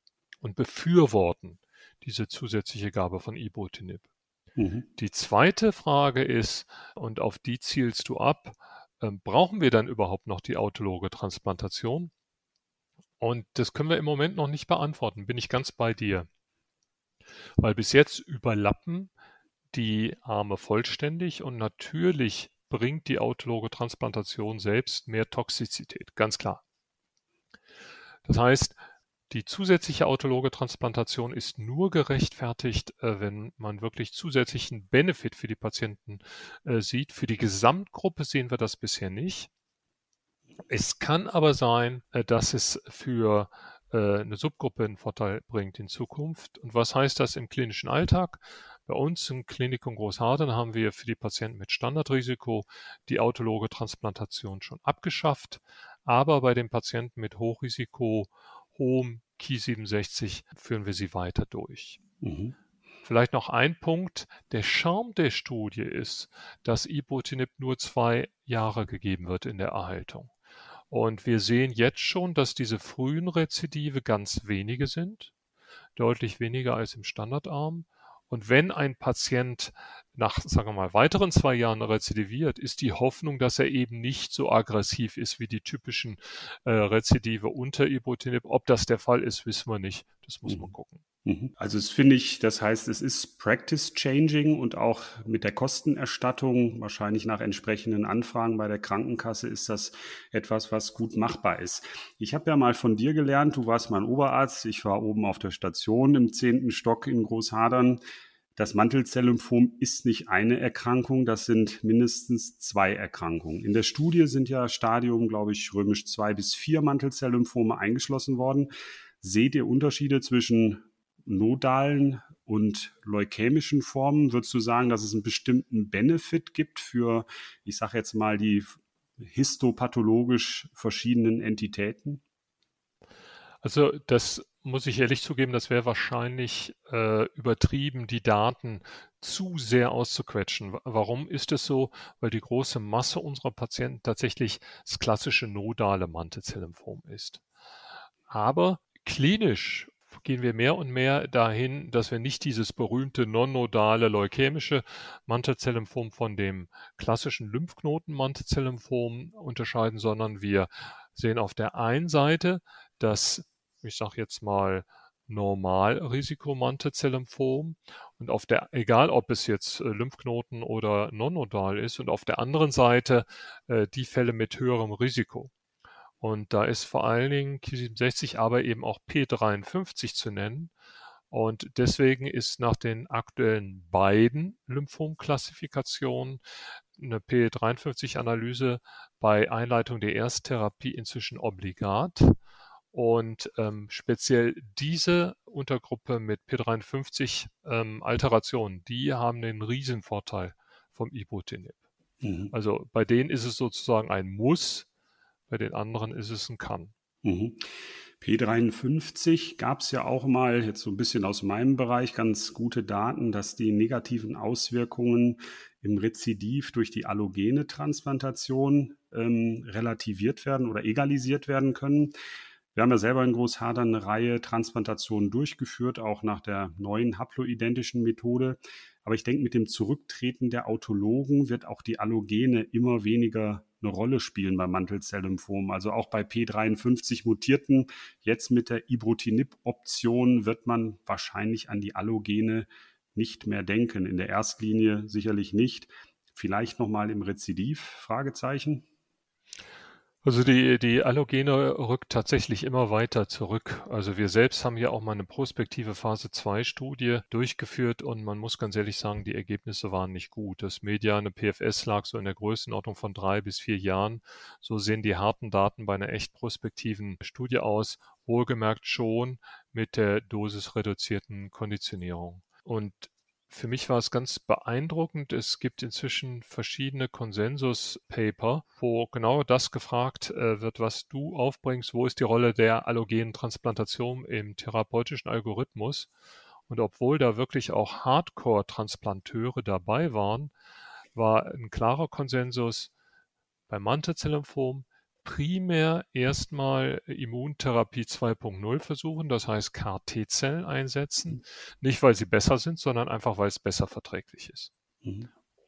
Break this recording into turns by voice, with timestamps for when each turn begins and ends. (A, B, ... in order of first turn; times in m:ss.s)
0:00.4-0:04.0 A
0:04.6-0:04.9 B
0:05.0-0:12.1 A
0:13.2-0:16.3 A
0:17.6-0:19.1 A
0:19.7-0:26.6 A
0:28.2-0:28.8 A
0:29.3-0:39.5 A
0:40.7-1:02.0 A
1:02.2-1:02.5 B
1:03.0-1:10.3 A
1:10.9-1:15.3 A
1:16.0-1:31.0 A
1:31.2-1:48.0 B
1:48.6-1:58.7 B
1:59.2-2:12.2 B
2:13.6-2:27.4 A
2:28.3-2:55.5 A
2:56.2-3:00.7 A
3:01.3-3:06.4 A
3:07.0-3:12.4 A
3:12.9-3:21.8 A
3:22.2-3:22.5 B
3:22.5-3:24.9 A
3:25.5-3:26.9 A
3:27.2-3:27.6 B
3:28.2-3:42.1 B
3:42.7-4:08.8 B
4:10.2-4:46.1 A
4:46.7-4:50.5 A
4:51.1-4:52.9 A
4:53.7-5:04.7 A
5:05.0-5:05.3 B